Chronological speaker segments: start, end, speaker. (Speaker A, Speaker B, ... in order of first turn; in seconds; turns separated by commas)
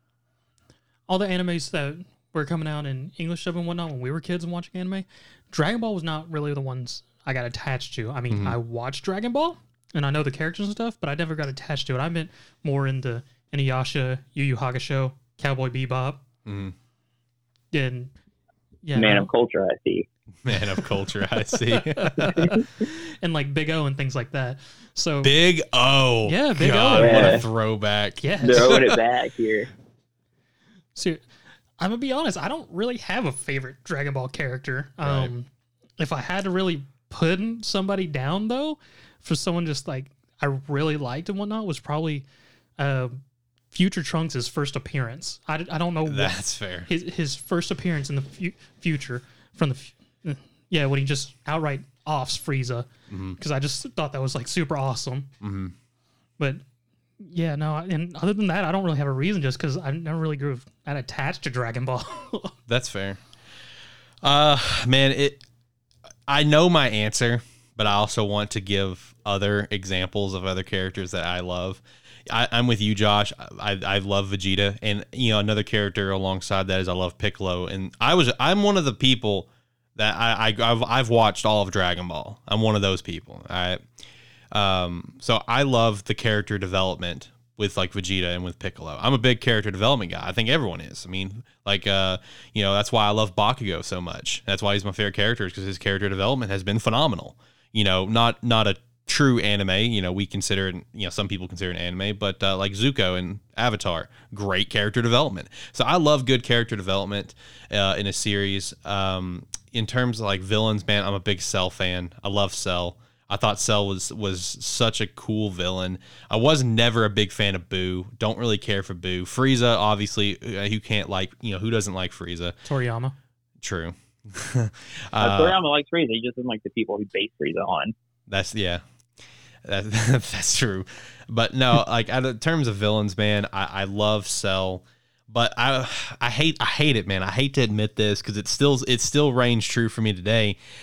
Speaker A: 1.1-16.2, Speaker B: 8.3-8.6, Speaker B: 16.4-16.7, Speaker A: 17.7-18.1, Speaker A: 18.8-19.3, Speaker C: 18.9-20.1, Speaker B: 20.4-22.6, Speaker A: 21.7-25.3, Speaker B: 25.2-28.9, Speaker A: 26.3-27.5, Speaker C: 27.0-27.4, Speaker A: 28.2-28.9, Speaker C: 28.4-29.7, Speaker A: 30.9-31.2, Speaker A: 31.8-35.5, Speaker B: 35.0-35.3, Speaker A: 36.0-42.2, Speaker A: 42.8-43.2, Speaker A: 43.7-55.3, Speaker B: 46.1-46.9, Speaker B: 53.1-53.4, Speaker B: 55.4-55.8, Speaker A: 57.2-62.5, Speaker B: 62.7-63.2, Speaker B: 64.2-65.4, Speaker B: 66.3-83.8, Speaker B: 84.5-122.6, Speaker A: 122.7-123.2, Speaker B: 123.6-125.6, Speaker C: 125.2-127.9, Speaker B: 128.3-128.8, Speaker B: 129.6-140.6